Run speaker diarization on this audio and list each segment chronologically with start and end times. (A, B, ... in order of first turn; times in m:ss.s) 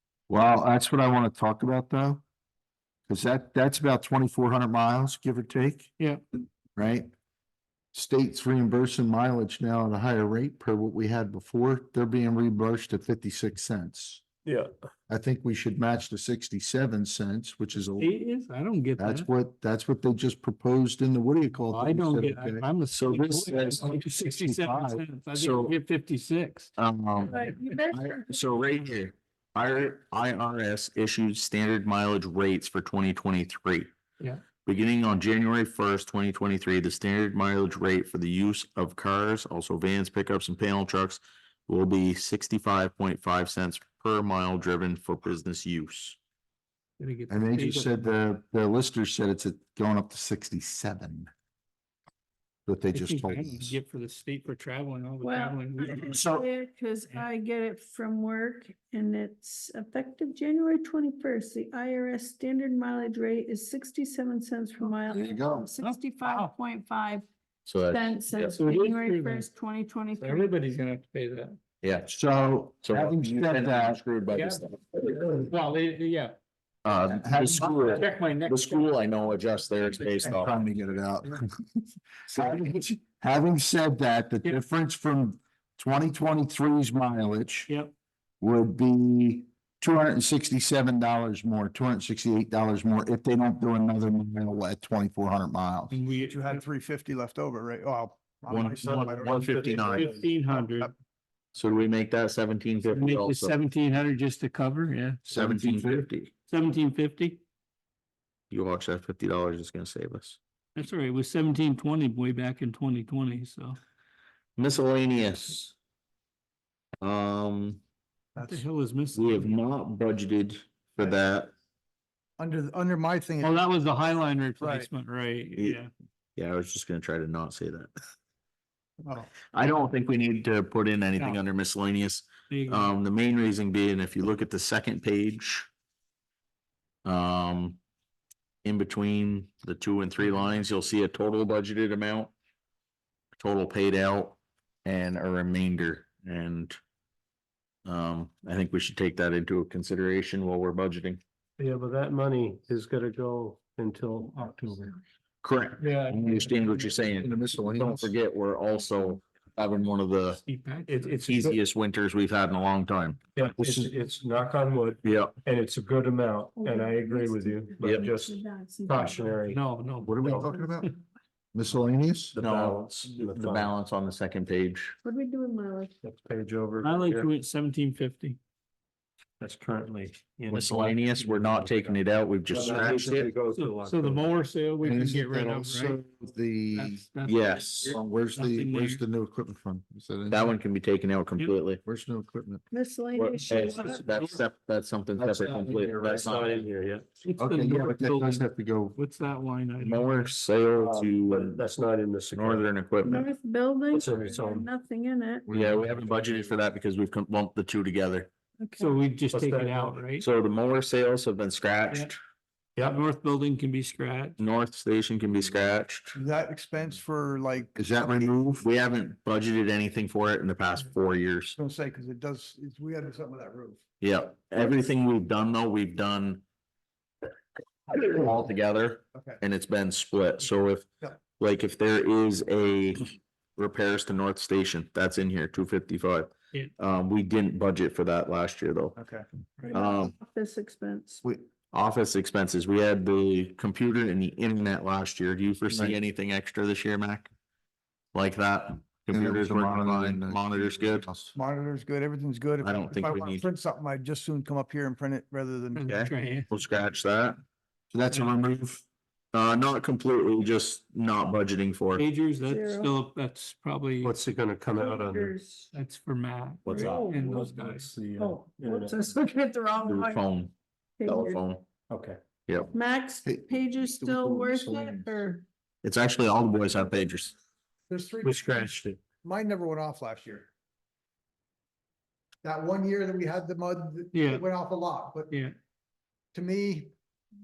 0:00.3-0:02.2 A
0:03.1-0:05.9 A
0:06.8-0:07.1 A
0:07.9-0:14.2 A
0:14.4-0:14.7 B
0:15.1-0:18.1 A
0:18.0-0:19.3 C
0:19.0-0:25.0 A
0:21.7-0:26.7 C
0:23.0-0:23.8 D
0:25.4-0:25.8 D
0:26.8-0:27.4 D
0:27.2-0:28.4 E
0:28.2-0:33.9 D
0:34.7-0:46.2 D
0:47.0-0:48.1 C
0:47.3-0:51.3 A
0:52.7-0:53.8 A
0:52.9-0:56.2 C
0:55.2-1:07.3 E
0:56.0-0:56.4 A
1:05.1-1:05.7 A
1:05.8-1:06.5 C
1:07.7-1:08.6 D
1:07.9-1:10.5 E
1:08.6-1:09.5 C
1:10.2-1:11.6 C
1:11.8-1:12.1 D
1:12.1-1:14.0 A
1:12.8-1:15.2 D
1:14.3-1:16.4 C
1:16.8-1:20.5 D
1:17.0-1:18.0 A
1:17.6-1:19.0 C
1:19.9-1:20.2 C
1:20.2-1:27.7 A
1:27.7-1:27.9 C
1:28.4-1:36.0 A
1:35.9-1:36.6 C
1:36.3-1:40.9 F
1:38.5-1:40.1 D
1:39.3-1:40.0 B
1:39.8-1:40.9 C
1:41.6-1:43.6 D
1:42.9-1:45.2 C
1:45.2-1:46.1 A
1:45.3-1:46.3 D
1:46.5-1:47.4 C
1:48.5-1:50.4 D
1:50.8-1:53.8 C
1:54.6-1:55.7 D
1:57.0-1:57.8 D
1:58.4-1:58.6 F
1:58.4-1:59.5 C
1:59.2-2:01.5 D
2:02.4-2:03.6 F
2:03.4-2:05.9 C
2:04.6-2:04.9 F
2:06.4-2:07.9 D
2:09.0-2:09.3 F
2:09.5-2:15.7 D
2:12.5-2:12.9 C
2:17.0-2:17.8 D
2:18.6-2:22.3 D
2:23.4-2:26.8 D
2:27.9-2:31.2 D
2:31.6-2:35.0 B
2:35.4-2:40.4 D
2:35.8-2:37.0 C
2:37.0-2:38.1 A
2:40.4-2:41.2 C
2:40.9-2:41.6 B
2:41.2-2:43.2 D
2:43.4-2:50.5 B
2:43.6-2:43.9 A
2:45.0-2:45.4 D
2:46.6-2:49.4 E
2:49.5-2:50.4 C
2:50.0-2:51.0 A
2:51.5-2:52.4 A
2:52.3-2:53.8 B
2:52.4-2:55.0 D
2:55.0-2:56.0 E
2:56.0-2:57.3 B
2:56.8-2:58.4 C
2:59.4-3:04.4 B
3:00.5-3:03.3 D
3:02.5-3:03.2 A
3:03.5-3:06.0 C
3:04.8-3:07.0 A
3:06.8-3:09.0 C
3:07.2-3:08.0 D
3:07.8-3:10.6 A
3:10.3-3:11.8 D
3:11.8-3:12.6 A
3:12.7-3:14.0 E
3:13.2-3:16.7 D
3:13.5-3:13.8 B
3:13.8-3:14.4 C
3:15.2-3:15.9 A
3:15.3-3:17.1 B
3:17.2-3:20.3 C
3:17.4-3:19.0 A
3:19.8-3:21.7 D
3:20.7-3:22.7 B
3:22.3-3:23.3 D
3:23.0-3:25.5 E
3:23.9-3:24.7 B
3:25.5-3:26.4 A
3:25.5-3:28.3 D
3:28.6-3:29.0 E
3:28.8-3:30.3 C
3:29.3-3:30.0 B
3:30.2-3:32.2 D
3:32.8-3:34.4 C
3:34.4-3:36.2 D
3:36.1-3:37.8 F
3:37.8-3:38.7 A
3:38.6-3:41.6 D
3:41.6-3:43.8 F
3:44.0-3:46.4 D
3:47.9-3:50.9 D
3:49.2-3:49.4 F
3:51.4-3:59.0 D
3:59.0-3:59.8 F
3:59.7-4:01.2 E
3:59.7-4:00.1 D
4:01.7-4:07.3 D
4:05.7-4:06.0 A
4:08.1-4:11.1 D
4:09.1-4:11.3 A
4:11.4-4:15.8 F
4:12.6-4:13.5 D
4:15.8-4:16.5 C
4:15.9-4:17.4 D
4:17.9-4:18.8 A
4:19.3-4:22.0 D
4:22.0-4:24.2 C
4:22.4-4:23.0 E
4:24.0-4:25.4 B
4:24.7-4:25.7 E
4:25.7-4:27.9 C
4:26.7-4:27.0 D
4:26.7-4:27.3 E
4:26.7-4:29.2 B
4:28.2-4:30.2 E
4:29.9-4:31.6 D
4:31.0-4:31.4 E
4:31.9-4:32.2 B
4:32.7-4:35.4 E
4:33.2-4:35.1 A
4:35.8-4:37.3 D
4:37.9-4:38.4 F
4:38.2-4:39.0 B
4:39.2-4:40.5 F
4:42.4-4:45.3 F
4:44.1-4:44.5 C
4:45.3-4:45.6 C
4:46.3-4:46.9 F